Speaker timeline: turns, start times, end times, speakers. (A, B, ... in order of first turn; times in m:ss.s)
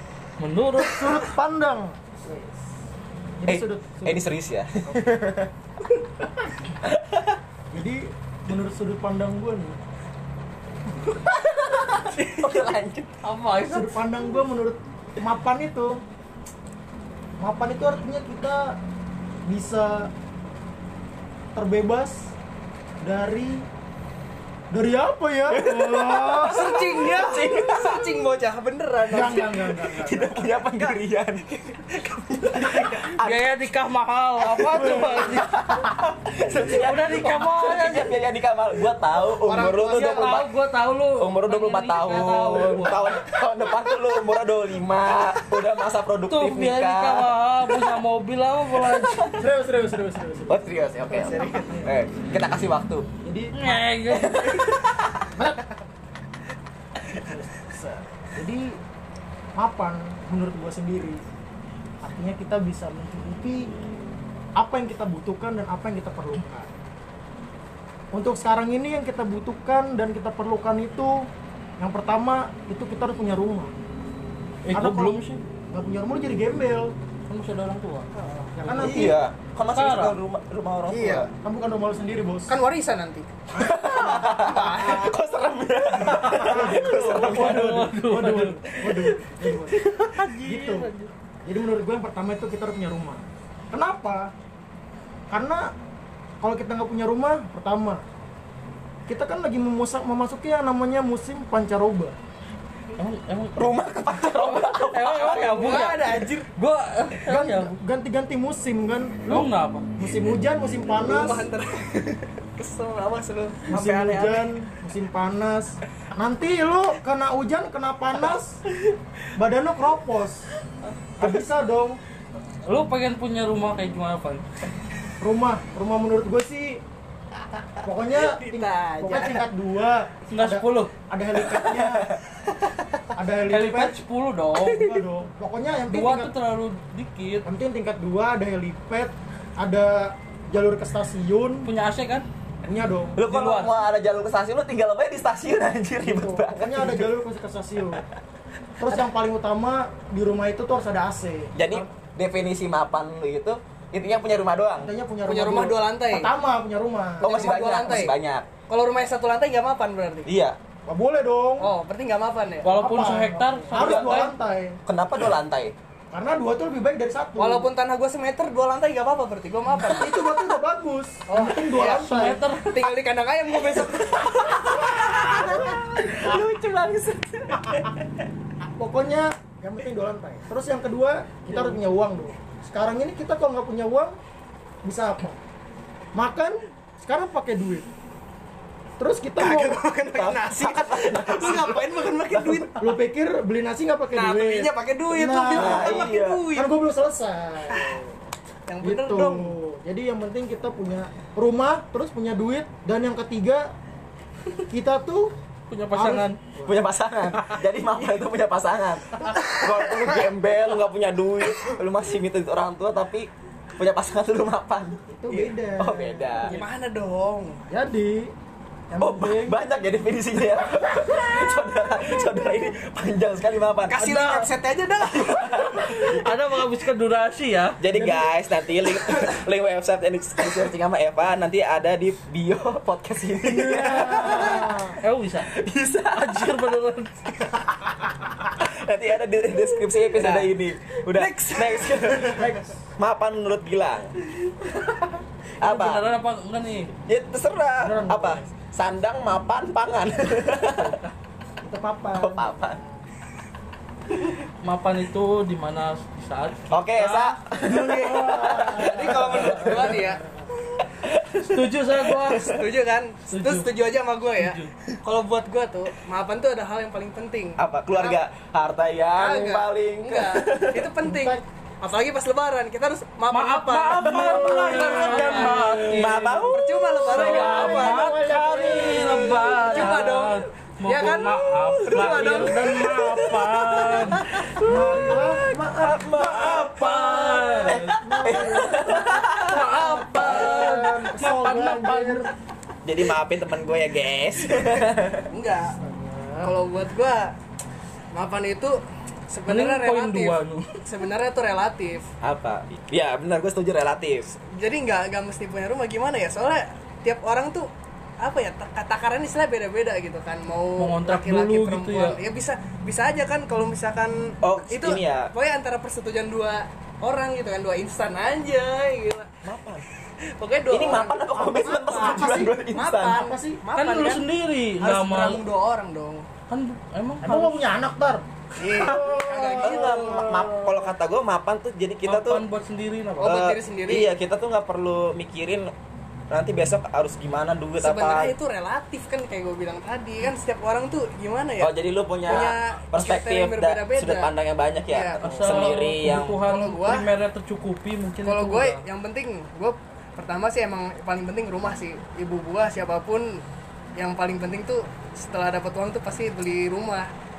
0:00.4-0:01.2 A
0:00.8-0:02.6 B
0:03.4-0:04.2 B
0:03.4-0:05.5 C
0:06.8-0:07.4 C
0:07.7-0:09.8 B
0:11.3-0:13.2 C
0:13.2-0:14.0 A
0:13.6-0:16.0 B
0:17.4-0:18.8 B
0:19.4-0:20.1 B
0:21.5-0:22.3 B
0:23.0-0:23.6 B
0:24.7-0:26.6 B
0:25.5-0:28.1 C
0:26.4-0:29.8 D
0:29.1-0:30.5 B
0:29.9-0:33.6 C
0:32.0-0:33.2 D
0:33.2-0:35.5 A
0:34.4-0:35.9 B
0:34.8-0:40.5 C
0:36.7-0:38.1 A
0:39.4-0:40.3 D
0:39.6-0:43.2 A
0:41.2-0:47.8 C
0:42.5-0:43.0 B
0:46.3-0:49.3 A
0:48.8-0:49.4 C
0:49.4-0:50.7 B
0:50.5-0:53.1 C
0:51.0-0:51.9 D
0:53.2-0:53.9 B
0:53.5-0:54.6 A
0:54.1-0:55.3 C
0:55.4-0:55.7 B
0:57.2-0:58.8 B
0:59.5-1:01.2 B
1:02.0-1:03.7 B
1:04.6-1:06.7 B
1:08.1-1:13.7 B
1:14.6-1:15.4 A
1:14.7-1:15.2 B
1:15.7-1:16.9 B
1:17.3-1:18.1 A
1:18.1-1:19.1 D
1:18.6-1:19.2 B
1:18.8-1:21.3 C
1:19.7-1:20.2 A
1:20.9-1:21.3 D
1:21.3-1:22.5 B
1:22.5-1:23.3 D
1:23.5-1:25.1 B
1:23.5-1:27.8 C
1:24.1-1:25.1 D
1:26.0-1:29.9 B
1:26.4-1:28.6 A
1:28.7-1:29.9 C
1:29.8-1:31.1 A
1:30.4-1:30.9 B
1:31.4-1:34.3 B
1:35.3-1:35.7 B
1:36.4-1:38.0 B
1:39.1-1:42.2 B
1:43.0-1:47.7 A
1:43.6-1:46.0 C
1:45.3-1:46.5 D
1:47.3-1:51.4 B
1:49.3-1:49.8 A
1:50.9-1:54.5 D
1:53.7-1:58.6 B
1:59.4-2:00.4 B
2:01.2-2:02.0 B
2:01.2-2:01.5 C
2:02.6-2:04.4 A
2:05.2-2:06.8 B
2:07.8-2:12.1 B
2:08.1-2:09.5 D
2:10.3-2:10.9 A
2:11.4-2:12.4 C
2:13.1-2:14.0 B
2:13.5-2:15.0 A
2:14.6-2:16.3 B
2:15.9-2:17.5 A
2:17.4-2:21.7 B
2:21.6-2:22.3 A
2:22.6-2:23.2 B
2:23.2-2:27.1 C
2:23.2-2:23.7 A
2:26.0-2:28.0 B
2:28.8-2:31.9 B
2:31.5-2:34.9 C
2:34.8-2:38.0 B
2:35.2-2:36.3 D
2:37.2-2:38.5 C
2:37.2-2:38.1 D
2:38.7-2:40.3 D
2:40.2-2:40.6 C
2:40.8-2:41.7 B
2:41.6-2:42.7 D
2:42.6-2:44.4 A
2:42.7-2:44.8 B
2:43.7-2:44.2 C
2:44.8-2:45.7 C
2:46.1-2:47.7 B
2:47.4-2:50.4 D
2:49.9-2:52.4 B
2:51.3-2:55.4 D
2:51.8-2:52.9 A
2:53.7-2:58.1 C
2:54.8-2:56.4 B
2:57.5-2:57.9 B
2:58.6-3:04.2 B
3:01.5-3:01.8 A
3:04.8-3:05.4 B
3:06.1-3:07.8 B
3:09.0-3:09.8 B
3:09.4-3:12.8 D
3:10.0-3:12.7 C
3:12.8-3:18.1 B
3:14.1-3:16.7 D
3:15.5-3:16.4 C
3:17.7-3:18.0 D
3:18.7-3:19.6 D
3:18.8-3:23.7 B
3:24.7-3:25.3 B
3:25.7-3:26.4 A
3:25.9-3:26.8 B
3:26.6-3:36.6 C
3:35.1-3:36.6 B
3:36.4-3:37.6 D
3:37.7-3:38.3 B
3:38.9-3:39.6 B
3:39.0-3:44.4 C
3:43.9-3:45.6 D
3:45.1-3:46.6 C
3:45.8-3:47.8 A
3:47.8-3:54.9 C
3:47.9-3:48.3 B
3:53.4-3:55.0 B
3:54.1-3:57.6 A
3:55.5-3:56.5 C
3:58.5-4:02.5 C
4:00.1-4:00.4 D
4:01.1-4:02.6 D
4:02.3-4:02.8 B
4:03.0-4:04.1 C
4:05.6-4:06.0 C
4:05.6-4:06.9 A
4:07.1-4:11.0 C
4:07.8-4:08.5 B
4:11.6-4:12.8 B
4:12.2-4:12.8 C
4:14.6-4:17.4 A
4:16.7-4:20.1 C
4:17.6-4:20.4 B
4:17.6-4:20.2 D
4:20.9-4:22.6 C
4:21.4-4:22.5 A
4:22.3-4:28.2 D
4:23.3-4:23.7 A
4:24.4-4:24.7 A
4:27.6-4:30.9 C
4:29.2-4:35.8 D
4:31.0-4:31.4 B
4:33.3-4:36.5 A
4:34.0-4:36.2 B
4:34.0-4:35.1 C
4:35.7-4:37.4 C
4:36.5-4:38.3 D
4:37.0-4:44.3 A
4:37.1-4:40.1 B
4:39.5-4:42.9 D
4:41.5-4:46.8 C
4:44.6-4:52.3 B
4:46.7-4:47.9 A
4:47.6-4:49.7 C
4:48.9-4:52.3 A
4:50.2-4:50.8 C
4:52.8-4:55.3 C
4:55.3-4:55.8 D
4:55.8-4:56.5 B
4:56.4-4:57.3 D
4:58.1-5:02.0 D
4:59.5-5:00.8 A
5:02.2-5:04.3 C
5:04.5-5:07.7 D
5:08.2-5:19.3 D
5:10.8-5:12.2 A
5:14.4-5:15.3 C
5:19.4-5:19.8 C
5:20.4-5:24.3 D
5:20.7-5:23.2 C
5:21.3-5:23.6 B
5:23.8-5:25.4 A
5:24.8-5:26.2 D
5:26.5-5:27.6 A
5:27.2-5:30.9 B
5:28.6-5:30.3 D
5:28.6-5:32.4 C
5:32.0-5:33.4 A
5:33.2-5:34.1 D
5:33.2-5:35.7 C
5:36.3-5:38.3 C
5:37.8-5:44.3 D
5:41.6-5:46.4 C
5:44.9-5:45.7 D
5:45.2-5:48.8 A
5:46.4-5:47.1 D
5:48.2-5:53.4 D
5:54.0-5:57.1 D